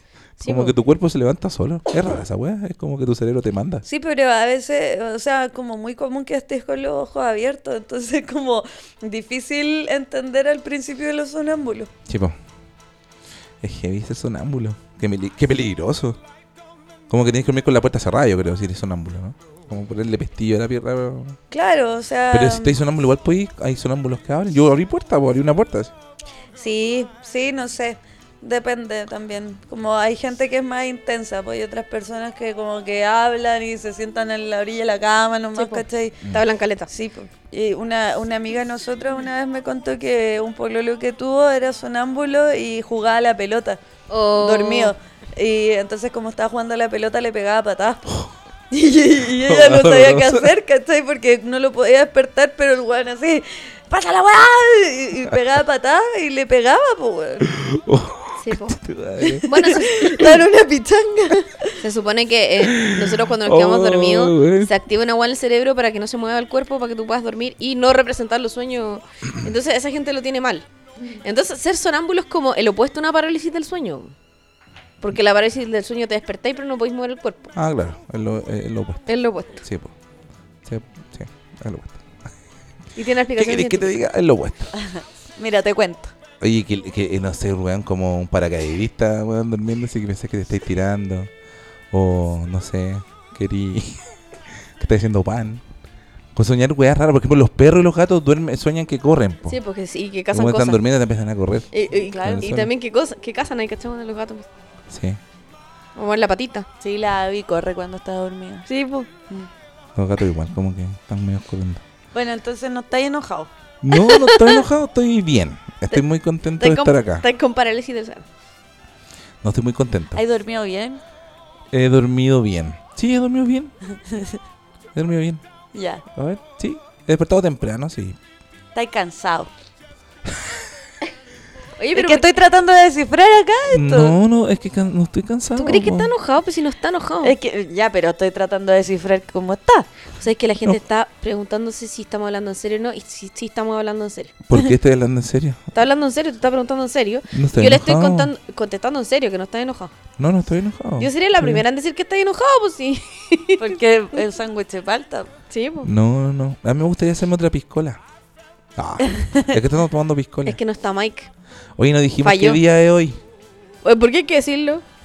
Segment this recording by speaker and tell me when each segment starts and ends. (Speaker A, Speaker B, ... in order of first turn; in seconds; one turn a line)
Speaker A: 0.4-0.8
Speaker B: 0.4-3.8
Speaker C: 3.9-11.9
Speaker B: 12.1-12.4
Speaker B: 13.6-16.2
Speaker B: 17.1-21.4
Speaker C: 21.5-22.8
Speaker B: 22.3-25.9
Speaker C: 26.6-36.2
Speaker A: 35.6-36.9
Speaker C: 36.9-43.8
Speaker A: 44.1-44.9
Speaker C: 44.4-57.5
Speaker B: 49.5-50.5
Speaker B: 57.5-59.5
Speaker A: 58.4-58.8
Speaker C: 59.2-61.7
Speaker A: 59.5-60.2
Speaker A: 61.8-70.7
Speaker B: 62.6-64.7
Speaker A: 71.2-74.1
Speaker A: 75.0-77.5
Speaker B: 77.5-79.1
Speaker A: 79.1-79.7
Speaker B: 79.6-79.9
Speaker B: 80.7-82.0
Speaker A: 83.0-84.0
Speaker B: 83.3-84.7
Speaker C: 84.7-86.1
Speaker B: 86.4-91.3
Speaker B: 91.9-94.0
Speaker B: 94.8-95.6
Speaker B: 96.3-99.6
Speaker A: 99.5-100.8
Speaker B: 100.3-102.7
Speaker A: 101.7-104.5
Speaker C: 102.1-102.5
Speaker B: 104.9-105.2
Speaker A: 106.0-106.7
Speaker C: 106.8-108.7
Speaker A: 108.7-109.1
Speaker B: 110.0-111.8
Speaker C: 112.1-113.5
Speaker B: 113.8-117.2
Speaker A: 113.9-114.6
Speaker A: 116.6-118.2
Speaker B: 119.4-120.2
Speaker C: 120.2-121.0
Speaker B: 121.7-123.7
Speaker C: 124.1-124.4
Speaker B: 125.0-125.4
Speaker C: 125.7-126.0
Speaker B: 126.2-128.2
Speaker C: 128.8-129.5
Speaker A: 131.8-132.3
Speaker C: 131.9-134.2
Speaker B: 133.7-136.1
Speaker A: 135.6-137.3
Speaker C: 137.2-139.9
Speaker A: 140.2-144.3
Speaker B: 144.5-145.6
Speaker A: 145.7-149.9
Speaker B: 147.3-148.3
Speaker B: 150.2-151.6
Speaker A: 151.0-153.8
Speaker C: 153.6-155.3
Speaker A: 155.5-155.9
Speaker B: 155.8-158.0
Speaker B: 158.8-160.6
Speaker C: 159.1-159.5
Speaker A: 160.5-161.3
Speaker B: 161.8-163.2
Speaker A: 162.2-162.6
Speaker A: 163.8-164.8